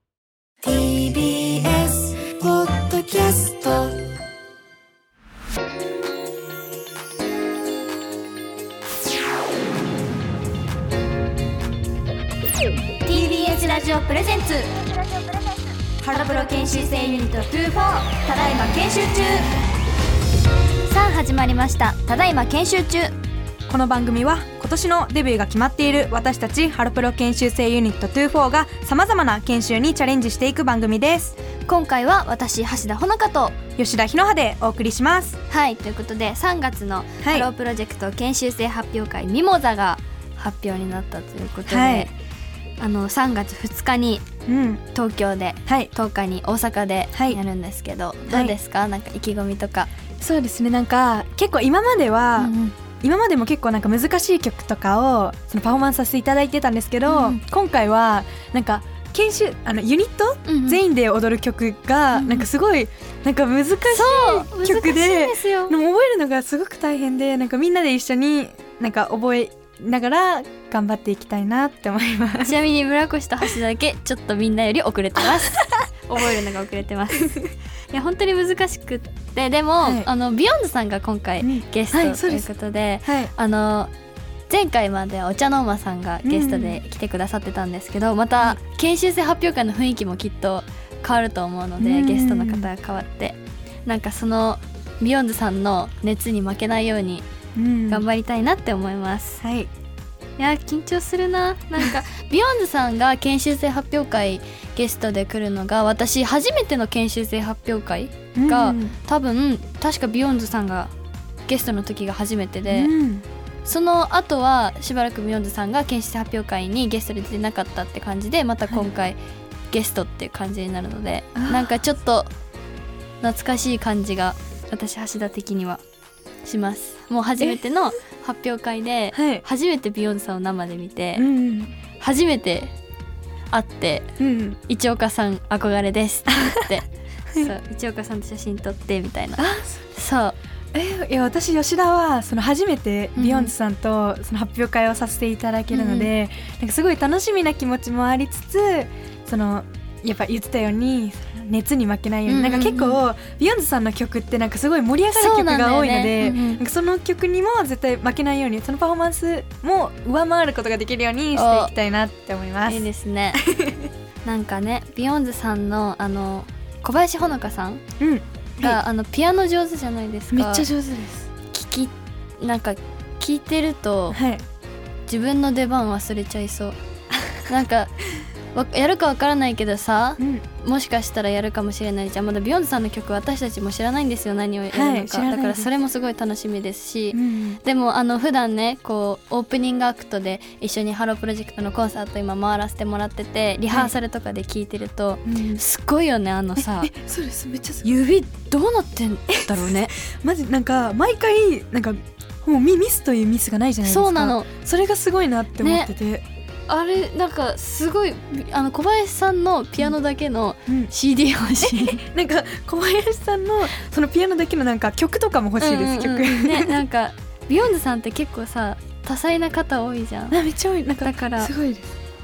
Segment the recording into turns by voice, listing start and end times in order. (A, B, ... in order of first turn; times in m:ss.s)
0:00.6-0:04.0 A
0:13.0-0:14.8 B
0:16.0-0:19.5 B
0:20.8-0:23.1 B
0:23.7-0:31.3 C
0:31.7-0:33.6 B
0:33.8-0:35.4 C
0:35.5-0:42.1 B
0:37.2-0:37.5 C
0:41.7-0:42.1 C
0:42.8-0:44.3 B
0:44.5-0:44.8 C
0:44.9-0:49.9 B
0:45.6-0:45.9 C
0:47.2-0:47.4 C
0:48.3-0:48.6 C
0:50.2-1:12.5 C
0:52.4-0:52.7 B
0:57.0-0:57.4 B
1:00.5-1:00.8 B
1:02.1-1:02.5 B
1:03.9-1:05.8 B
1:12.4-1:23.9 B
1:19.8-1:20.1 C
1:21.4-1:22.5 C
1:23.0-1:23.3 C
1:24.5-1:37.2 B
1:26.2-1:26.8 C
1:31.8-1:32.7 C
1:37.6-1:38.0 C
1:37.9-1:39.4 B
1:39.4-1:39.7 C
1:40.4-1:50.9 B
1:48.3-1:48.9 C
1:51.5-1:52.9 B
1:52.7-1:53.2 C
1:53.6-1:59.2 B
1:59.7-2:02.3 B
2:01.3-2:01.7 C
2:03.2-2:05.8 B
2:06.4-2:11.3 B
2:09.1-2:09.4 C
2:11.1-2:11.7 C
2:12.0-2:12.7 B
2:13.5-2:14.1 B
2:14.2-2:14.6 C
2:14.7-2:20.4 B
2:19.4-2:19.8 C
2:20.7-2:42.8 C
2:23.2-2:23.5 B
2:25.7-2:26.1 B
2:32.3-2:33.0 B
2:35.1-2:36.6 B
2:41.3-2:41.7 B
2:42.7-2:43.4 B
2:43.4-2:43.9 C
2:44.2-2:47.8 B
2:48.0-2:48.8 C
2:48.6-2:50.7 B
2:50.3-2:51.3 C
2:51.5-2:54.2 B
2:54.1-2:54.4 C
2:55.1-2:56.8 B
2:57.4-2:57.9 B
2:58.5-3:16.9 B
3:00.2-3:00.4 C
3:04.7-3:05.7 C
3:07.1-3:07.6 C
3:15.2-3:15.6 C
3:16.6-3:17.9 C
3:17.8-3:19.9 B
3:19.3-3:26.2 C
3:23.8-3:24.5 B
3:25.6-3:25.9 B
3:26.7-3:32.0 B
3:30.7-3:30.9 C
3:31.6-3:36.8 C
3:35.6-3:40.4 B
3:40.3-3:41.9 C
3:41.0-3:41.5 B